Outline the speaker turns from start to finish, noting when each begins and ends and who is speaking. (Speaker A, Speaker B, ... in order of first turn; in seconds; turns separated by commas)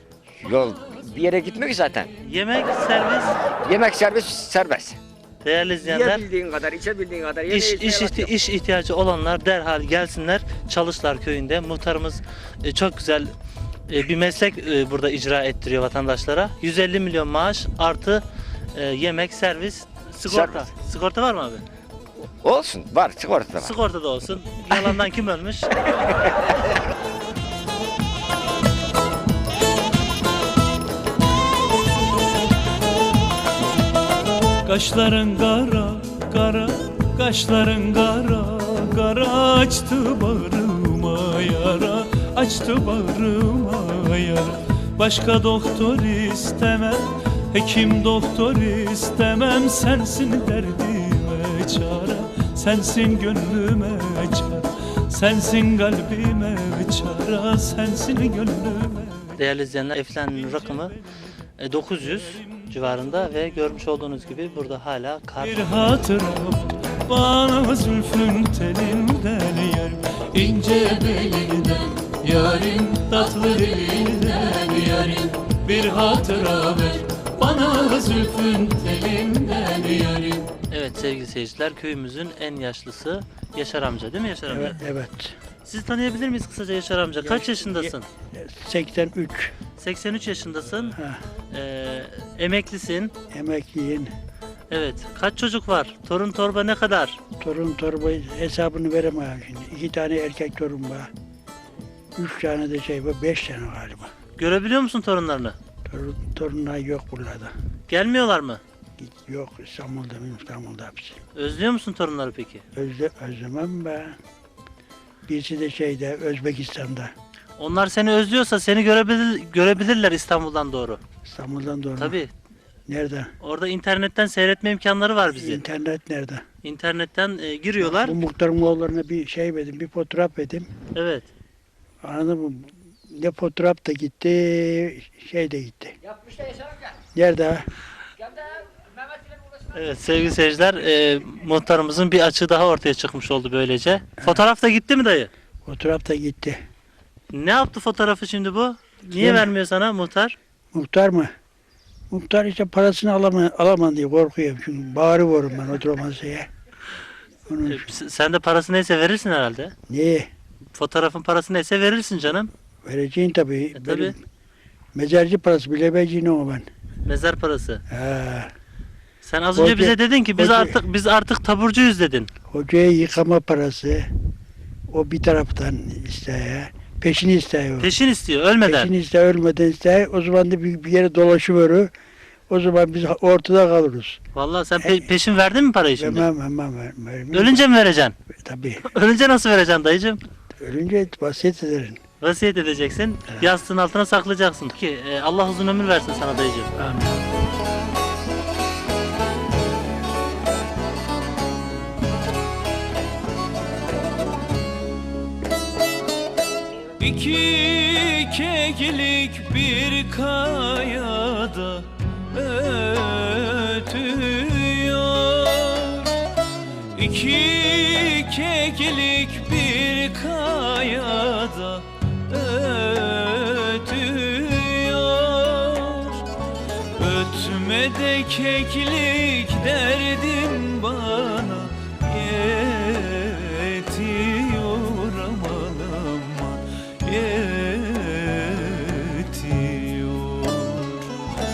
Speaker A: 0.4-2.1, Speaker B: 2.2-3.4, Speaker A: 3.6-5.0, Speaker B: 5.4-6.2, Speaker A: 5.8-8.3, Speaker B: 7.5-13.3, Speaker B: 13.9-18.2, Speaker B: 18.7-21.6, Speaker A: 20.3-20.7, Speaker A: 22.4-23.7, Speaker B: 23.6-26.2, Speaker A: 26.1-26.5, Speaker C: 34.6-59.3, Speaker B: 59.4-61.0, Speaker B: 61.6-65.7, Speaker C: 65.4-80.5, Speaker B: 80.7-84.8, Speaker D: 84.5-85.3, Speaker B: 85.7-88.1, Speaker D: 87.2-89.5, Speaker B: 89.8-91.0, Speaker D: 90.9-91.2, Speaker B: 91.5-93.1, Speaker D: 93.3-94.1, Speaker B: 94.7-97.2, Speaker D: 97.4-101.1, Speaker D: 102.2-104.1, Speaker B: 104.4-105.5, Speaker D: 105.9-107.5, Speaker B: 107.9-108.6, Speaker D: 109.0-111.2, Speaker B: 111.3-112.6, Speaker D: 112.7-114.2, Speaker D: 115.3-117.1, Speaker B: 117.6-121.0, Speaker D: 121.2-122.2, Speaker B: 122.0-122.3, Speaker D: 122.9-123.3, Speaker B: 123.4-125.6, Speaker D: 125.3-126.4, Speaker B: 126.6-128.2, Speaker D: 127.8-130.7, Speaker B: 130.9-131.3, Speaker D: 132.0-136.0, Speaker D: 137.1-137.7, Speaker B: 139.7-145.3, Speaker D: 145.6-146.6, Speaker B: 147.3-150.4, Speaker D: 149.1-149.5, Speaker D: 150.7-151.3, Speaker D: 152.1-156.5, Speaker D: 157.5-157.9, Speaker B: 157.6-159.7, Speaker D: 159.9-160.3, Speaker B: 160.7-162.5, Speaker D: 162.8-164.2, Speaker B: 163.8-164.1, Speaker D: 164.9-166.7, Speaker B: 167.0-167.8, Speaker D: 167.9-168.5, Speaker B: 169.2-172.3, Speaker D: 169.6-170.8, Speaker D: 172.5-174.1, Speaker D: 174.9-177.9, Speaker B: 177.8-178.9, Speaker D: 178.6-181.9, Speaker D: 182.5-184.2, Speaker B: 184.3-186.3, Speaker D: 184.8-185.1, Speaker D: 186.0-187.6, Speaker B: 187.3-188.1, Speaker D: 188.3-188.8, Speaker B: 188.8-190.2, Speaker D: 190.6-192.0, Speaker B: 192.2-196.7, Speaker D: 196.8-197.2, Speaker C: 207.0-216.1, Speaker C: 216.9-226.2, Speaker C: 227.0-241.1